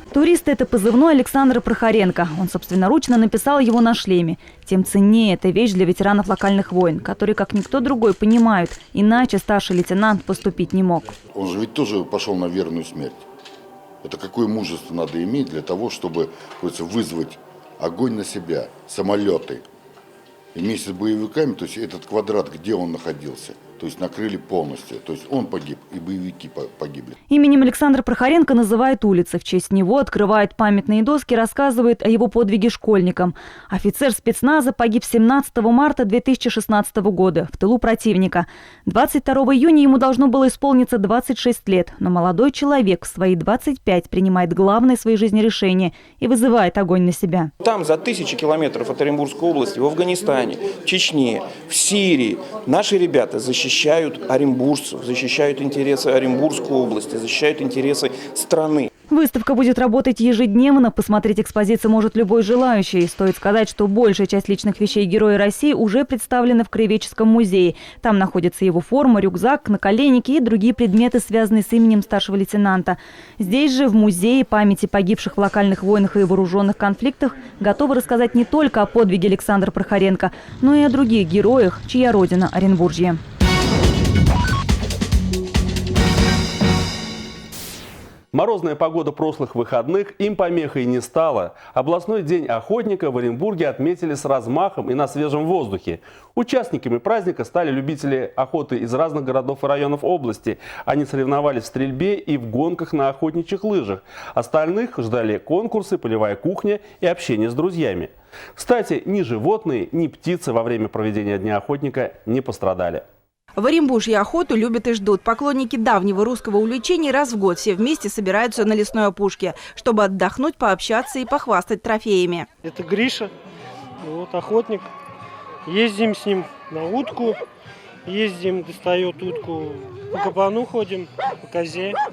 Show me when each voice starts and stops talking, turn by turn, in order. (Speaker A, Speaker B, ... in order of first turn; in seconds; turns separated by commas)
Speaker A: 0.1-11.1, Speaker B: 11.3-13.2, Speaker B: 14.0-19.6, Speaker B: 20.5-27.1, Speaker A: 27.3-47.5, Speaker C: 47.6-58.9, Speaker A: 59.1-83.2, Speaker D: 88.3-113.0, Speaker E: 113.5-122.5, Speaker F: 122.6-123.3, Speaker F: 124.0-124.9, Speaker F: 125.7-127.4, Speaker F: 128.1-132.0